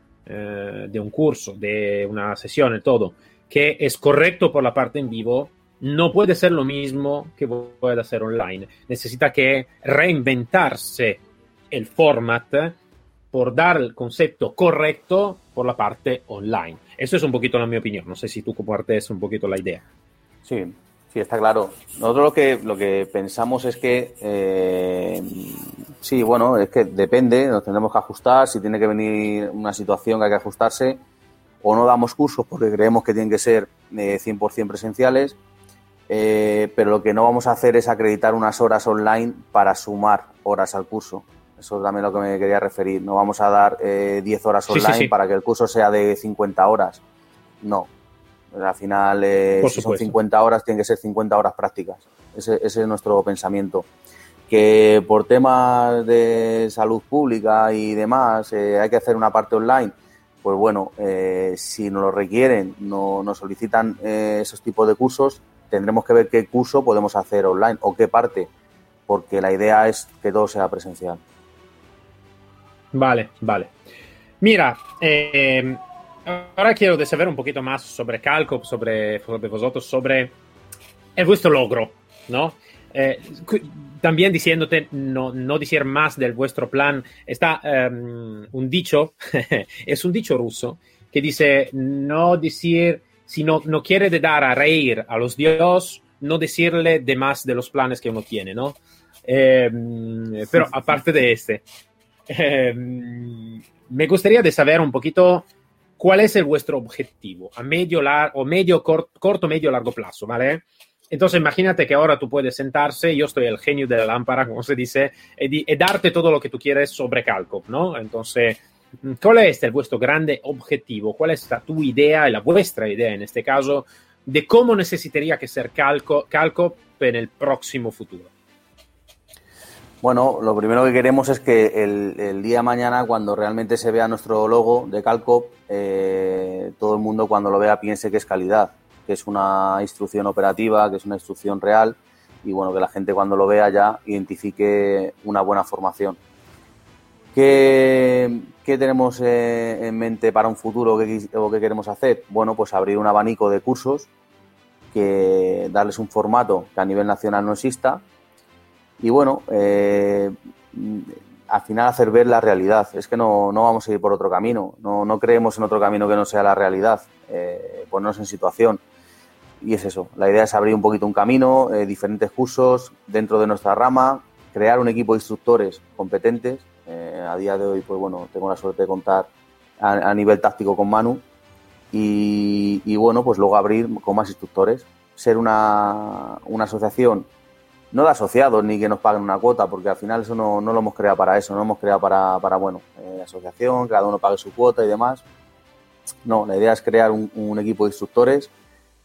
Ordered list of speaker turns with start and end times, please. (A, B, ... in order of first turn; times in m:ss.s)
0:00.3-0:12.8 A
0:13.3-0:19.8 A
0:20.4-0:31.0 B
0:31.6-0:35.4 B
0:36.1-0:47.0 B
0:44.7-0:45.1 A
0:47.6-0:47.9 B
0:48.5-0:53.9 B
0:49.6-0:50.1 A
0:54.5-1:08.5 B
1:09.1-1:11.2 B
1:12.9-1:13.8 A
1:14.4-1:20.4 A
1:21.2-1:41.6 A
1:42.3-1:45.5 A
1:46.0-2:08.3 A
2:10.0-2:26.2 B
2:27.3-2:34.1 B
2:34.9-2:38.0 B
2:39.0-2:48.8 B
2:49.6-3:01.2 B
3:01.9-3:07.3 B
3:07.9-3:15.2 B
3:16.2-3:18.5 B